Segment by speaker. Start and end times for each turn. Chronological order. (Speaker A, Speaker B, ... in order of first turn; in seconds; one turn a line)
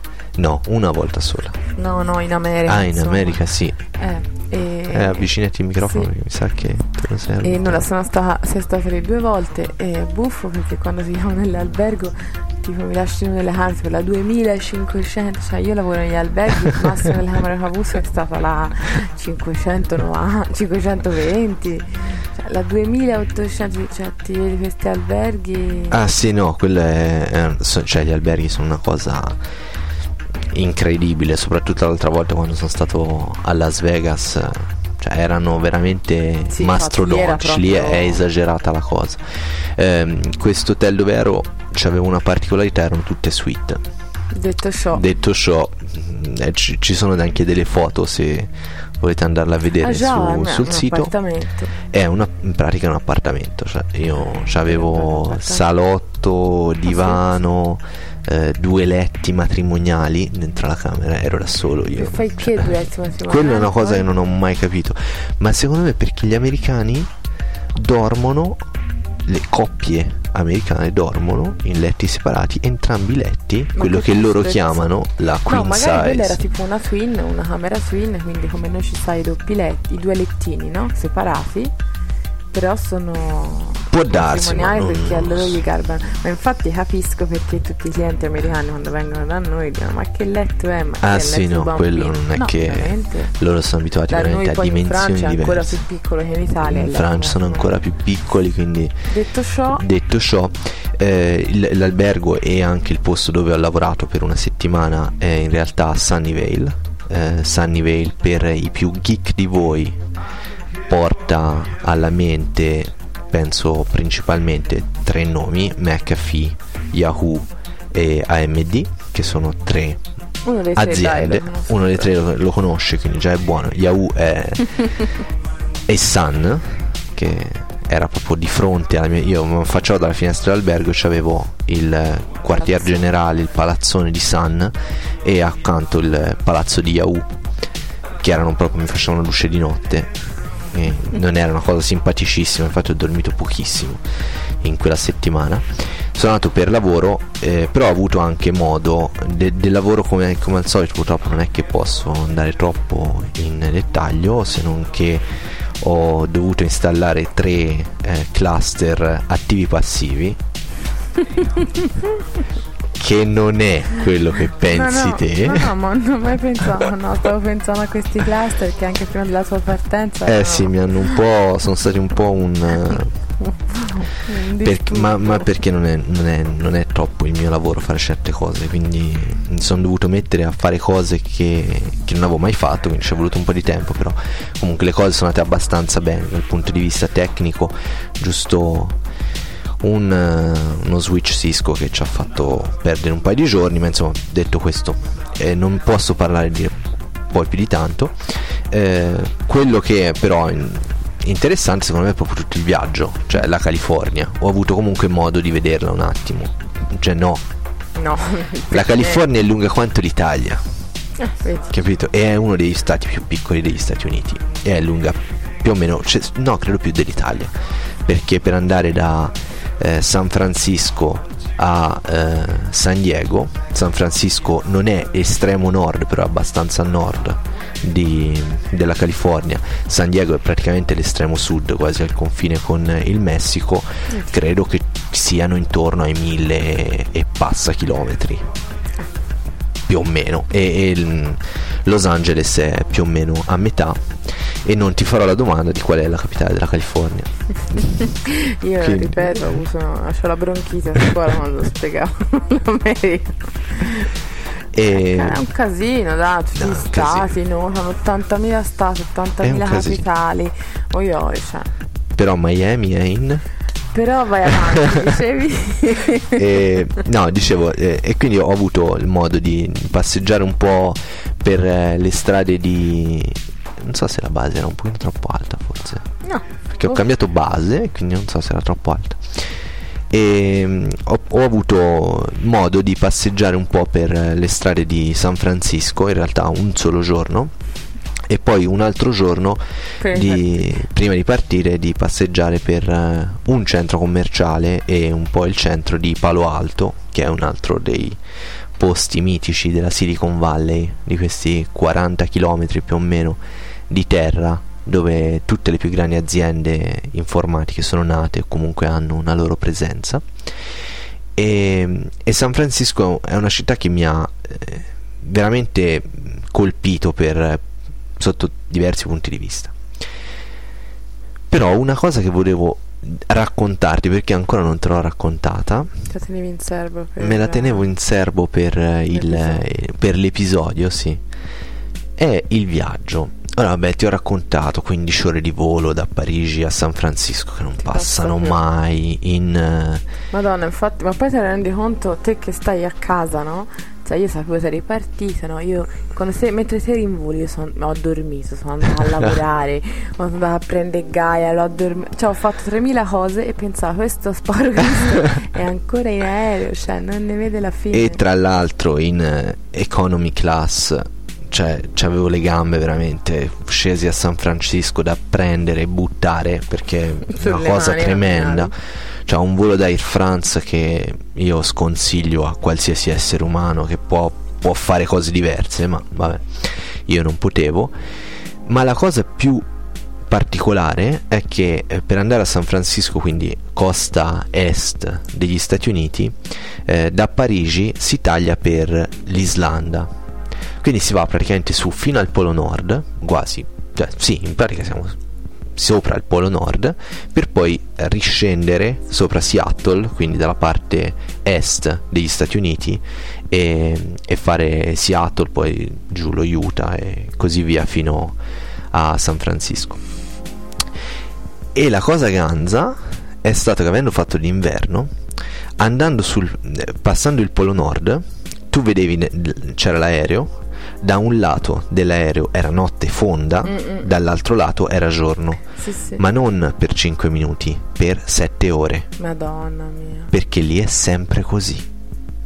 Speaker A: 0.4-1.6
Speaker B: 1.8-3.4
Speaker A: 2.6-3.8
Speaker B: 3.9-6.1
Speaker A: 4.9-7.9
Speaker B: 7.4-26.0
Speaker A: 25.9-29.4
Speaker A: 30.5-43.8
Speaker B: 36.5-38.2
Speaker B: 44.3-45.0
Speaker A: 44.9-51.1
Speaker B: 49.8-51.7
Speaker A: 51.8-67.1
Speaker B: 54.6-55.6
Speaker B: 56.9-57.2
Speaker B: 62.0-64.1
Speaker A: 67.7-68.6
Speaker A: 69.2-76.4
Speaker B: 73.7-74.9
Speaker B: 75.5-81.7
Speaker B: 82.5-93.3
Speaker A: 83.9-85.6
Speaker A: 91.0-95.8
Speaker B: 94.1-97.7
Speaker A: 96.6-99.0
Speaker B: 99.1-99.8
Speaker A: 99.7-110.0
Speaker A: 110.9-120.0
Speaker B: 120.4-122.1
Speaker A: 120.7-124.8
Speaker A: 125.9-137.3
Speaker B: 132.6-133.0
Speaker A: 138.2-140.2
Speaker A: 140.7-144.0
Speaker A: 144.6-160.4
Speaker B: 161.6-162.0
Speaker A: 162.9-165.7
Speaker B: 164.7-170.8
Speaker A: 170.2-173.1
Speaker B: 173.4-175.5
Speaker A: 174.6-189.0
Speaker A: 189.8-207.4
Speaker B: 207.9-209.3
Speaker A: 208.7-210.6
Speaker B: 211.2-211.7
Speaker A: 211.7-217.5
Speaker A: 218.1-238.5
Speaker A: 239.9-248.0
Speaker B: 248.0-254.1
Speaker A: 248.8-249.5
Speaker A: 254.7-255.4
Speaker B: 254.9-261.7
Speaker A: 256.6-257.3
Speaker A: 259.4-260.0
Speaker A: 262.1-263.4
Speaker B: 263.9-266.7
Speaker A: 264.7-265.0
Speaker A: 266.3-276.1
Speaker B: 276.2-277.0
Speaker A: 276.7-279.5
Speaker A: 280.1-287.5
Speaker A: 288.2-298.2
Speaker B: 290.0-290.8
Speaker A: 298.8-310.2
Speaker A: 311.4-317.6
Speaker A: 318.2-319.7
Speaker A: 321.5-325.9
Speaker B: 326.1-327.9
Speaker A: 327.2-331.2
Speaker B: 329.1-329.6
Speaker A: 332.2-340.1
Speaker B: 337.8-338.6
Speaker B: 340.3-358.2
Speaker A: 357.9-368.7
Speaker B: 367.3-368.7
Speaker A: 369.2-377.9
Speaker A: 378.6-379.6
Speaker A: 380.3-390.1
Speaker A: 390.8-395.2
Speaker A: 395.8-408.4
Speaker A: 408.9-410.0
Speaker A: 411.7-415.1
Speaker A: 415.8-429.1
Speaker B: 423.6-424.1
Speaker B: 425.8-426.2
Speaker B: 429.2-430.3
Speaker A: 430.3-431.9